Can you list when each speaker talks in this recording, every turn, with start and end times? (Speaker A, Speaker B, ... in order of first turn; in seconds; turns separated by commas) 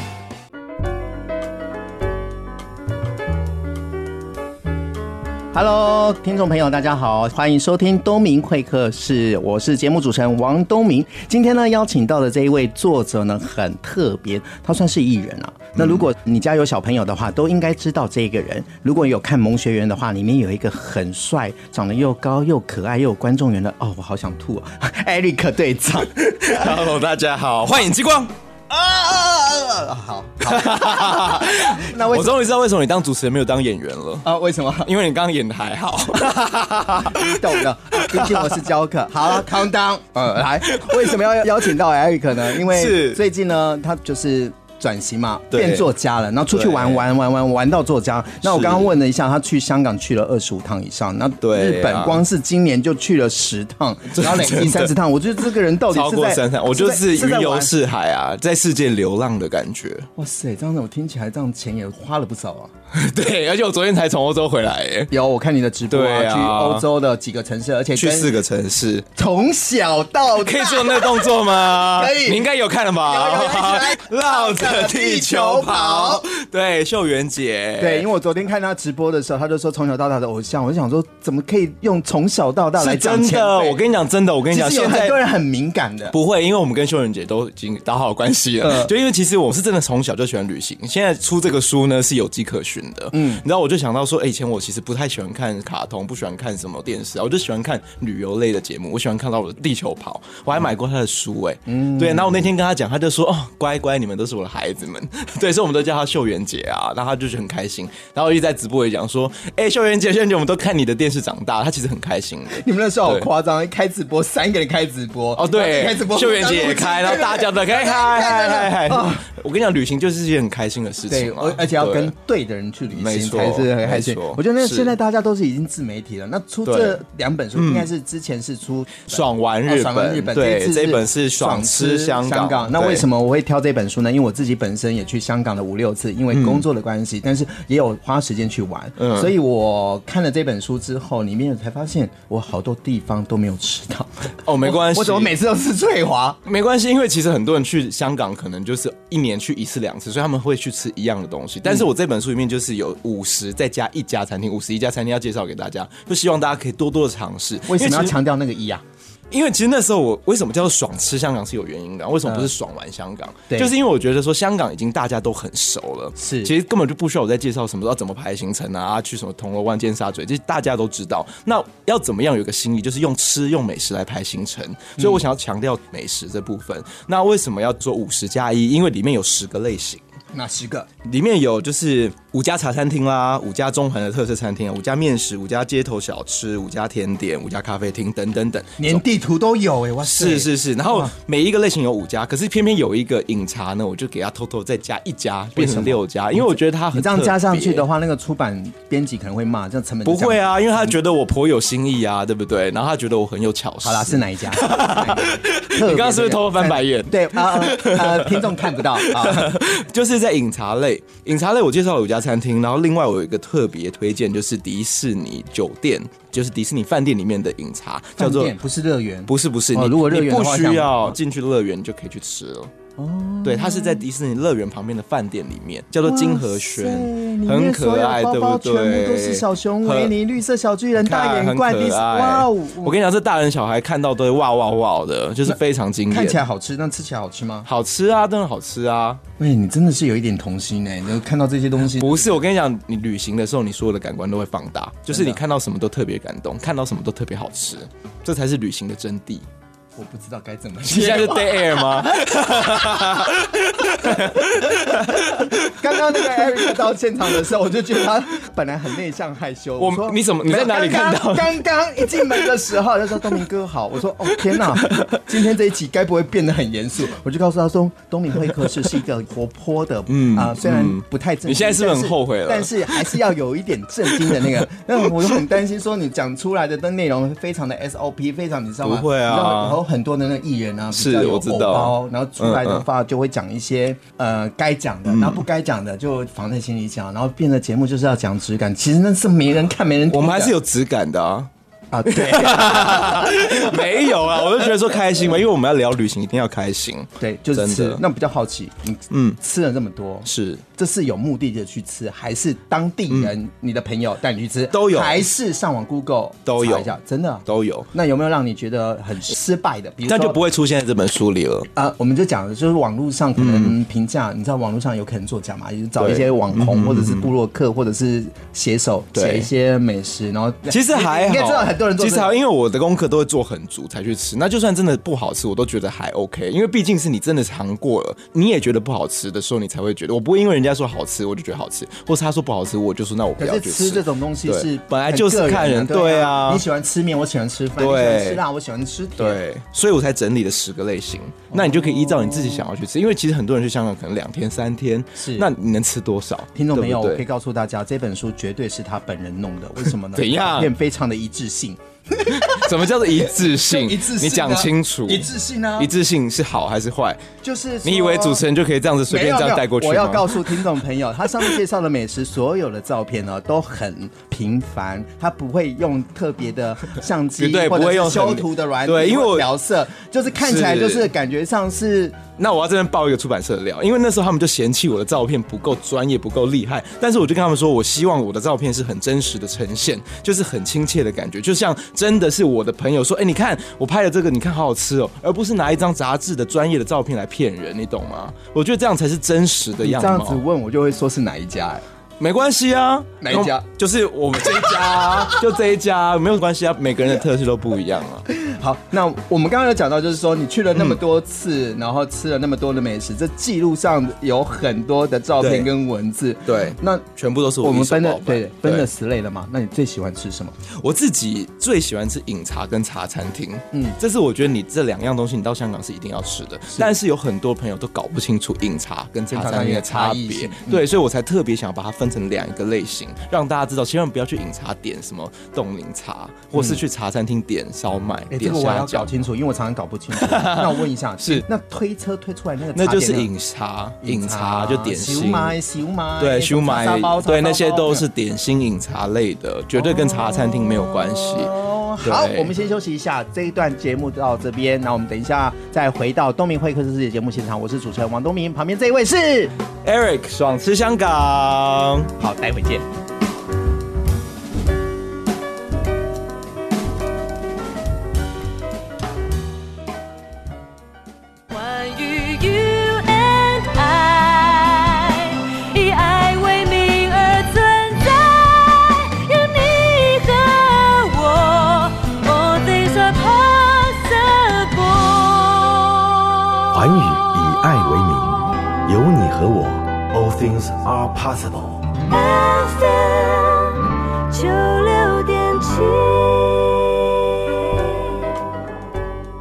Speaker A: 5.5-26.7, Speaker B: 15.8-16.0, Speaker B: 26.2-28.3, Speaker A: 28.7-32.4, Speaker B: 30.4-34.3, Speaker A: 34.2-34.9, Speaker B: 34.9-38.6, Speaker A: 37.1-57.8, Speaker B: 40.6-41.7, Speaker B: 42.5-43.2, Speaker B: 45.5-45.9, Speaker B: 46.5-47.0, Speaker B: 48.4-48.9, Speaker B: 51.4-52.2, Speaker B: 54.2-54.9, Speaker B: 55.9-60.1, Speaker A: 60.2-62.7, Speaker B: 62.9-65.1, Speaker A: 65.1-68.4, Speaker B: 65.9-66.8, Speaker B: 68.0-69.0, Speaker A: 69.2-72.4, Speaker B: 70.4-78.1, Speaker A: 73.1-76.3, Speaker A: 77.8-83.8, Speaker B: 82.8-85.2, Speaker A: 84.5-86.2, Speaker B: 86.1-113.3, Speaker A: 88.6-88.9, Speaker A: 93.1-93.4, Speaker A: 101.7-102.5, Speaker A: 112.5-119.3, Speaker B: 115.4-122.1, Speaker A: 121.1-146.4, Speaker B: 122.9-125.0, Speaker B: 126.7-127.0, Speaker B: 127.6-127.9, Speaker B: 129.1-133.1, Speaker B: 136.3-136.7, Speaker B: 139.0-139.3, Speaker B: 144.4-145.3, Speaker B: 146.4-158.2, Speaker A: 157.7-158.8, Speaker B: 159.3-180.0, Speaker A: 162.2-162.5, Speaker A: 166.2-166.5, Speaker A: 180.3-180.9, Speaker B: 181.0-189.0, Speaker A: 188.8-191.1, Speaker B: 190.1-197.8, Speaker A: 195.6-200.9, Speaker B: 200.1-218.6, Speaker A: 203.8-209.5, Speaker A: 218.2-221.2, Speaker B: 219.3-222.7, Speaker A: 223.0-224.0, Speaker B: 223.4-230.1, Speaker A: 226.0-233.0, Speaker B: 231.0-236.4, Speaker A: 236.1-237.7, Speaker B: 237.7-239.2, Speaker A: 239.4-242.3, Speaker B: 241.9-249.5, Speaker A: 245.1-245.4, Speaker A: 250.0-290.5, Speaker B: 250.8-256.6, Speaker B: 259.8-261.6, Speaker B: 262.1-262.5, Speaker B: 264.5-265.2, Speaker B: 270.1-273.2, Speaker B: 274.1-274.7, Speaker B: 278.8-279.8, Speaker B: 280.9-282.9, Speaker B: 285.1-285.4, Speaker B: 290.1-291.5, Speaker A: 291.9-294.4, Speaker B: 292.1-298.0, Speaker A: 297.2-310.4, Speaker B: 299.1-299.4, Speaker B: 300.2-300.6, Speaker B: 304.7-305.2, Speaker B: 306.5-306.9, Speaker B: 307.5-307.9, Speaker B: 310.0-311.7, Speaker A: 311.8-322.3, Speaker B: 313.4-313.8, Speaker B: 316.0-317.3, Speaker B: 319.1-319.5, Speaker B: 320.7-336.6, Speaker A: 333.4-339.4, Speaker B: 337.8-338.4, Speaker B: 339.2-347.2, Speaker A: 341.5-342.6, Speaker A: 345.2-345.5, Speaker A: 346.6-355.9, Speaker B: 350.1-350.7, Speaker B: 352.3-357.2, Speaker A: 357.4-358.4, Speaker B: 357.9-360.7, Speaker A: 359.1-372.2, Speaker B: 367.4-369.5, Speaker B: 370.4-371.1, Speaker B: 372.4-390.4, Speaker A: 389.8-391.8, Speaker B: 392.2-398.2, Speaker A: 393.2-393.6, Speaker A: 394.8-395.4, Speaker A: 398.3-407.1, Speaker B: 405.4-405.7, Speaker B: 406.5-408.9, Speaker A: 407.6-410.6, Speaker B: 410.7-429.1, Speaker A: 419.3-420.8, Speaker A: 426.5-426.8, Speaker A: 428.3-433.3, Speaker B: 430.1-431.4, Speaker B: 432.8-435.6, Speaker A: 434.0-438.1, Speaker B: 436.2-442.5, Speaker A: 439.8-449.5, Speaker B: 449.8-452.1, Speaker A: 452.2-452.9, Speaker C: 461.5-476.0, Speaker D: 476.7-481.9, Speaker C: 482.1-488.2